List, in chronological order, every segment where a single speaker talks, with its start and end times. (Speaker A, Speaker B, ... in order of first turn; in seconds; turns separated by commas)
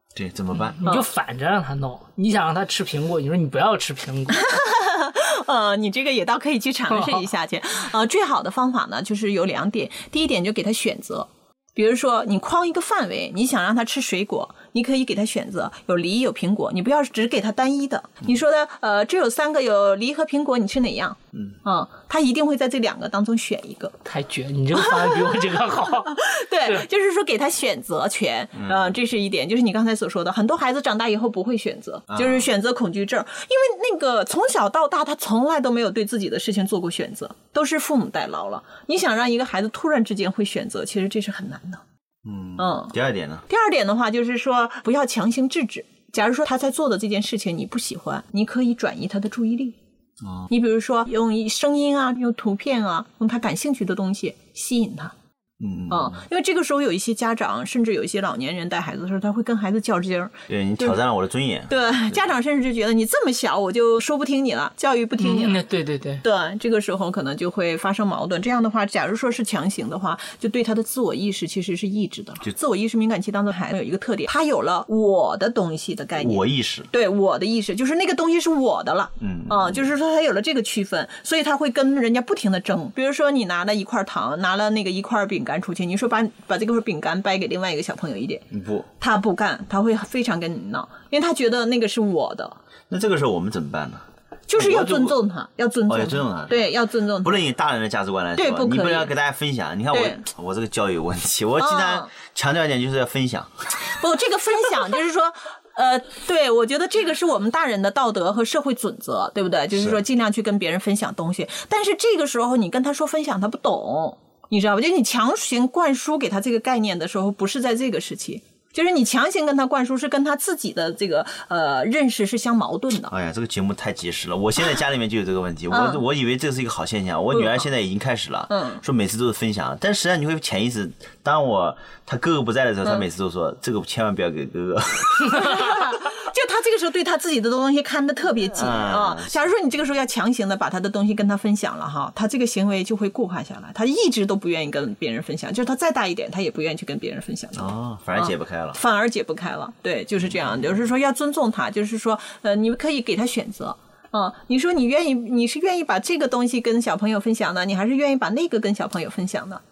Speaker A: 0.1-0.8, Speaker B: 0.6-4.6, Speaker C: 0.8-1.1, Speaker C: 4.3-23.9, Speaker B: 6.9-7.2, Speaker B: 24.0-26.8, Speaker C: 24.7-41.8, Speaker A: 28.6-28.9, Speaker A: 32.1-32.5, Speaker A: 42.2-43.4, Speaker C: 42.6-42.9, Speaker C: 43.5-49.8, Speaker A: 50.2-50.5, Speaker C: 50.5-55.1, Speaker A: 55.6-56.2, Speaker C: 55.9-61.0, Speaker A: 60.5-62.1, Speaker C: 61.7-65.6, Speaker B: 65.2-66.2, Speaker C: 66.2-88.5, Speaker A: 76.2-76.9, Speaker A: 79.2-79.8, Speaker A: 88.5-88.9, Speaker C: 89.0-92.6, Speaker A: 92.9-95.2, Speaker C: 94.5-97.4, Speaker A: 95.9-103.7, Speaker C: 98.3-99.1, Speaker C: 99.9-100.2, Speaker C: 101.6-102.1, Speaker C: 103.8-123.1, Speaker A: 123.1-135.8, Speaker C: 125.7-126.0, Speaker C: 128.5-128.8, Speaker C: 135.2-159.6, Speaker A: 138.5-139.4, Speaker A: 147.5-148.8